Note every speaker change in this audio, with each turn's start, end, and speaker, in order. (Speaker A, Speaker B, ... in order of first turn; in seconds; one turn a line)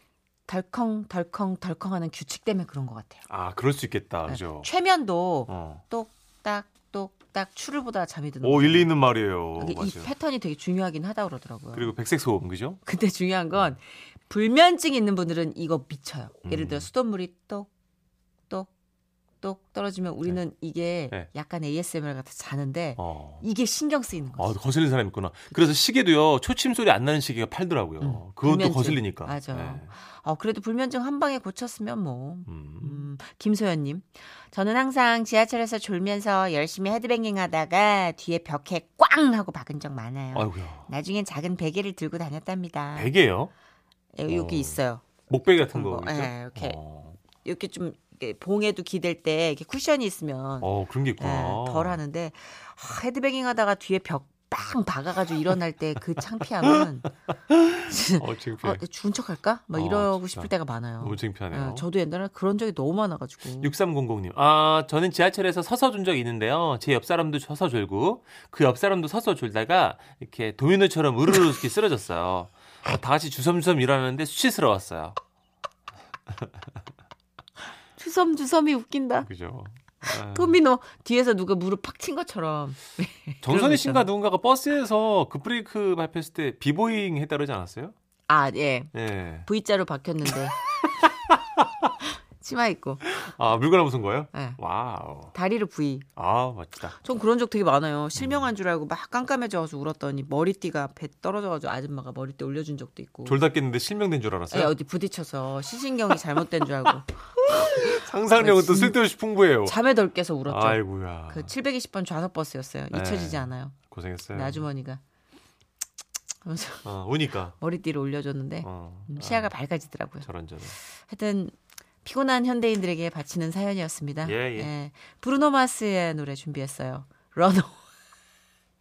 Speaker A: 0.5-3.2
Speaker B: 3.3-4.7
Speaker A: 4.3-8.9
Speaker B: 5.5-5.8
Speaker B: 8.4-10.1
Speaker A: 9.6-11.9
Speaker B: 11.7-12.8
Speaker A: 12.8-17.7
Speaker B: 16.4-16.9
Speaker A: 19.4-24.5
Speaker B: 23.0-23.4
Speaker B: 24.4-29.9
Speaker A: 28.0-43.1
Speaker B: 32.5-33.0
Speaker B: 40.3-40.9
Speaker B: 42.9-43.5
Speaker A: 44.1-45.0
Speaker B: 44.3-47.2
Speaker A: 45.7-46.8
Speaker A: 47.4-57.1
Speaker B: 50.6-52.0
Speaker B: 57.5-58.8
Speaker A: 57.8-63.7
Speaker B: 59.7-61.9
Speaker B: 63.6-75.2
Speaker A: 78.0-79.3
Speaker B: 79.2-80.6
Speaker A: 80.0-84.1
Speaker B: 83.4-87.9
Speaker A: 88.3-88.9
Speaker B: 88.9-89.5
Speaker A: 89.5-90.5
Speaker A: 92.4-93.1
Speaker B: 93.2-95.3
Speaker A: 94.3-94.6
Speaker A: 95.3-96.1
Speaker B: 96.2-97.0
Speaker A: 97.0-103.4
Speaker B: 98.2-98.5
Speaker B: 103.2-104.7
Speaker A: 104.5-109.0
Speaker B: 107.4-109.8
Speaker A: 109.6-113.7
Speaker B: 110.5-111.5
Speaker B: 112.9-114.7
Speaker A: 114.3-115.0
Speaker A: 116.4-116.8
Speaker B: 116.8-117.5
Speaker A: 117.6-120.2
Speaker B: 118.6-119.5
Speaker B: 120.2-120.8
Speaker A: 121.0-121.5
Speaker A: 122.0-127.8
Speaker B: 124.2-124.7